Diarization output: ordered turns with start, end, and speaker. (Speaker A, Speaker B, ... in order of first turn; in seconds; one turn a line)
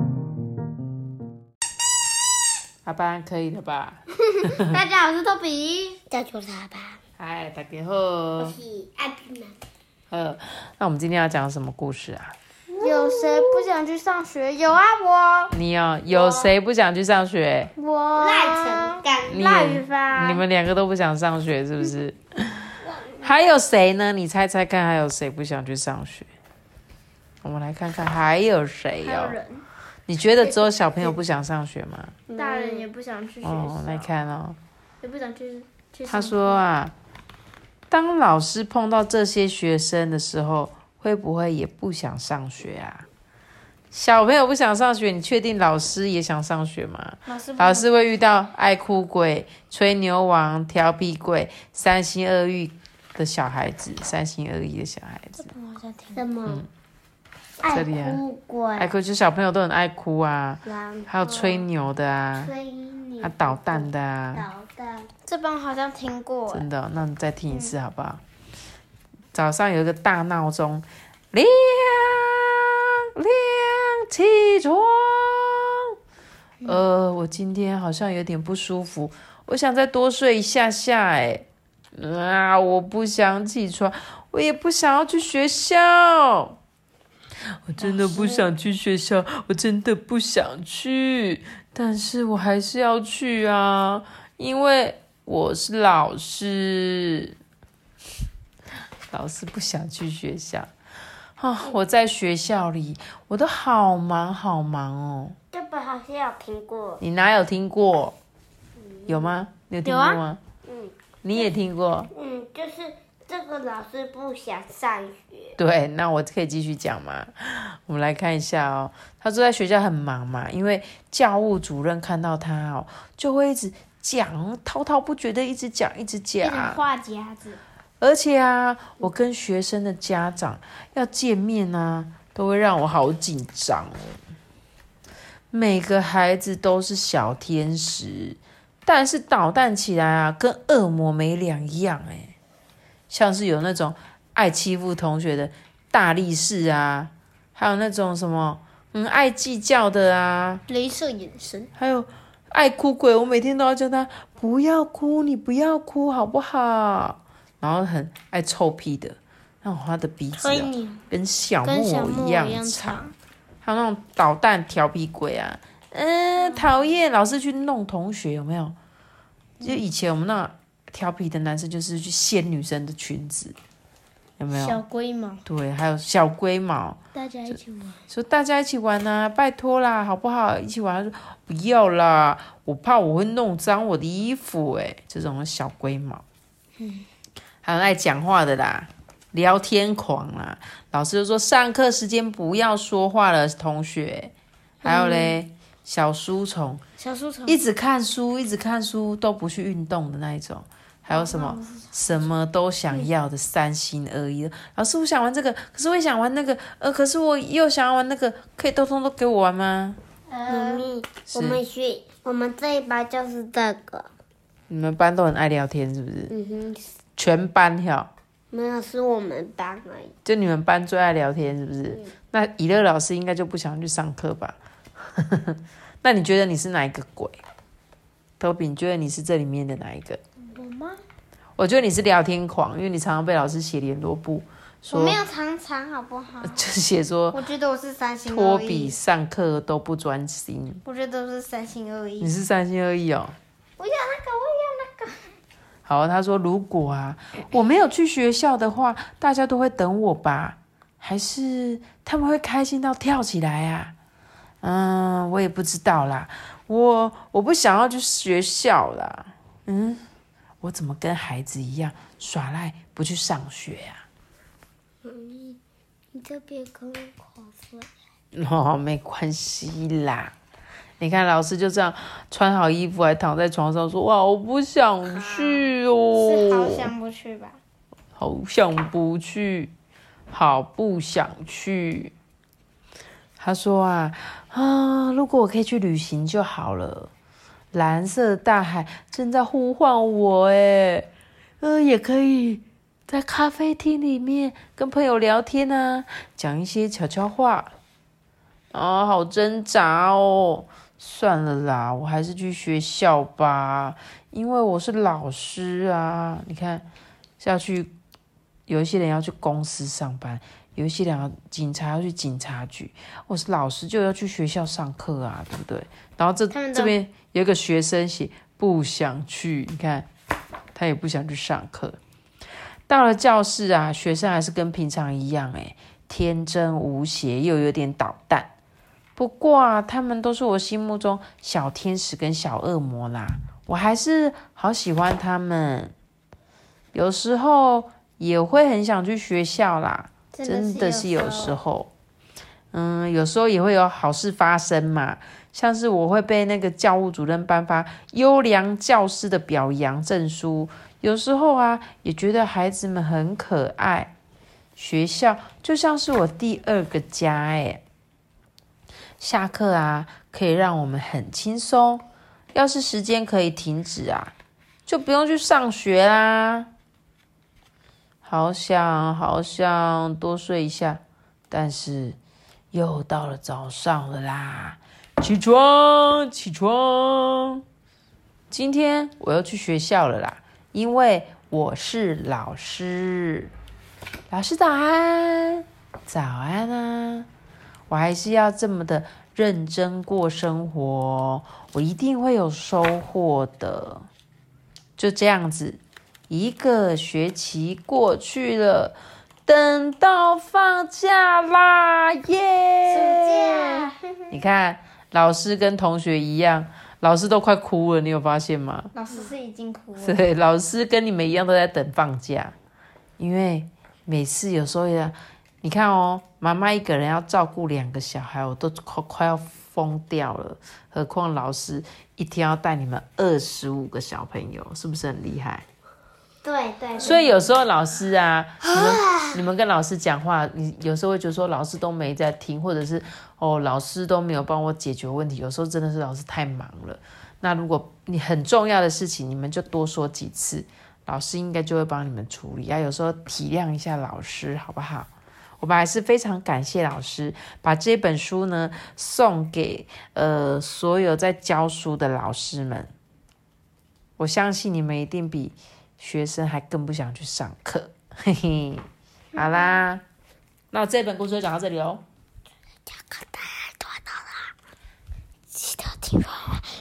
Speaker A: 2.9-4.8
Speaker B: 4.5-6.0
Speaker C: 6.1-7.0
Speaker A: 7.2-8.6
Speaker C: 8.4-9.6
Speaker A: 10.1-12.3
Speaker B: 12.7-15.5
Speaker C: 12.8-13.6
Speaker A: 15.5-17.7
Speaker B: 16.1-16.5
Speaker B: 17.8-20.4
Speaker C: 18.2-19.4
Speaker A: 19.3-26.3
Speaker A: 27.4-29.4
Speaker B: 29.0-29.6
Speaker A: 30.1-32.2
Speaker C: 32.3-32.9
Speaker B: 32.3-34.1
Speaker A: 33.4-34.6
Speaker B: 35.0-36.6
Speaker A: 36.1-36.9
Speaker A: 37.9-43.1
Speaker A: 43.9-55.5
Speaker B: 47.3-47.9
Speaker B: 55.4-56.2
Speaker C: 56.1-56.7
Speaker C: 57.6-58.9
Speaker A: 57.7-58.2
Speaker A: 58.8-62.5
Speaker C: 60.6-61.7
Speaker C: 62.4-65.1
Speaker A: 63.2-64.5
Speaker B: 65.3-66.7
Speaker A: 66.5-68.2
Speaker B: 67.5-67.8
Speaker A: 69.3-75.9
Speaker A: 76.7-86.6
Speaker A: 87.7-97.4
Speaker A: 99.1-100.7
Speaker A: 101.4-105.4
Speaker C: 105.5-107.0
Speaker A: 107.0-108.2
Speaker C: 108.8-109.3
Speaker A: 109.1-110.4
Speaker B: 109.8-110.2
Speaker C: 110.7-111.5
Speaker A: 111.2-112.1
Speaker C: 112.1-115.6
Speaker A: 115.6-126.8
Speaker B: 126.4-127.6
Speaker A: 128.0-134.2
Speaker A: 135.5-142.3
Speaker A: 143.1-150.6
Speaker B: 150.7-151.7
Speaker A: 151.8-163.0
Speaker B: 160.4-161.0
Speaker B: 161.6-163.1
Speaker A: 163.6-168.8
Speaker B: 166.4-166.7
Speaker A: 169.6-173.6
Speaker A: 174.4-174.8
Speaker B: 174.5-175.4
Speaker A: 175.5-177.0
Speaker B: 177.2-177.9
Speaker A: 178.1-186.2
Speaker B: 186.8-187.1
Speaker A: 187.6-194.3
Speaker B: 194.8-195.3
Speaker A: 194.8-196.8
Speaker B: 197.0-197.6
Speaker A: 197.5-210.0
Speaker B: 201.1-201.8
Speaker B: 210.3-210.9
Speaker C: 210.5-214.1
Speaker A: 211.3-211.6
Speaker A: 214.7-216.3
Speaker C: 216.3-216.9
Speaker A: 217.2-218.1
Speaker C: 218.5-220.1
Speaker A: 220.2-227.4
Speaker A: 228.4-230.2
Speaker B: 230.4-231.0
Speaker A: 231.6-235.2
Speaker B: 234.9-236.6
Speaker A: 236.4-237.4
Speaker B: 237.3-239.0
Speaker A: 238.3-240.8
Speaker B: 240.8-242.3
Speaker A: 242.2-243.4
Speaker B: 243.8-245.2
Speaker A: 245.8-253.9
Speaker A: 254.6-260.0
Speaker A: 260.6-264.0
Speaker C: 265.0-265.6
Speaker C: 266.1-267.9
Speaker A: 268.3-270.3
Speaker A: 271.0-276.9
Speaker C: 275.1-275.7
Speaker B: 276.1-277.6
Speaker A: 278.2-279.7
Speaker A: 280.3-282.1
Speaker A: 283.4-287.1
Speaker A: 287.7-291.1
Speaker A: 291.6-297.7
Speaker A: 298.7-306.9
Speaker A: 307.4-307.9
Speaker A: 308.7-320.1
Speaker B: 316.5-317.0
Speaker A: 320.7-322.0
Speaker A: 322.9-328.5
Speaker A: 329.2-335.9
Speaker A: 336.9-341.9
Speaker B: 340.3-341.6
Speaker A: 342.7-354.1
Speaker A: 354.8-357.8
Speaker A: 359.2-364.3
Speaker A: 364.9-366.7
Speaker A: 368.2-371.0
Speaker A: 371.5-372.2
Speaker A: 372.7-377.6
Speaker A: 378.5-383.5
Speaker A: 384.3-387.3
Speaker A: 387.9-394.1
Speaker A: 395.0-408.9
Speaker B: 402.9-403.9
Speaker B: 408.9-410.2
Speaker A: 410.0-412.6
Speaker A: 413.2-425.6
Speaker C: 426.4-427.2
Speaker A: 427.0-452.9
Speaker C: 428.6-429.4
Speaker A: 454.2-460.0
Speaker C: 459.3-459.8
Speaker A: 460.7-462.0
Speaker C: 463.1-464.3
Speaker C: 465.6-466.6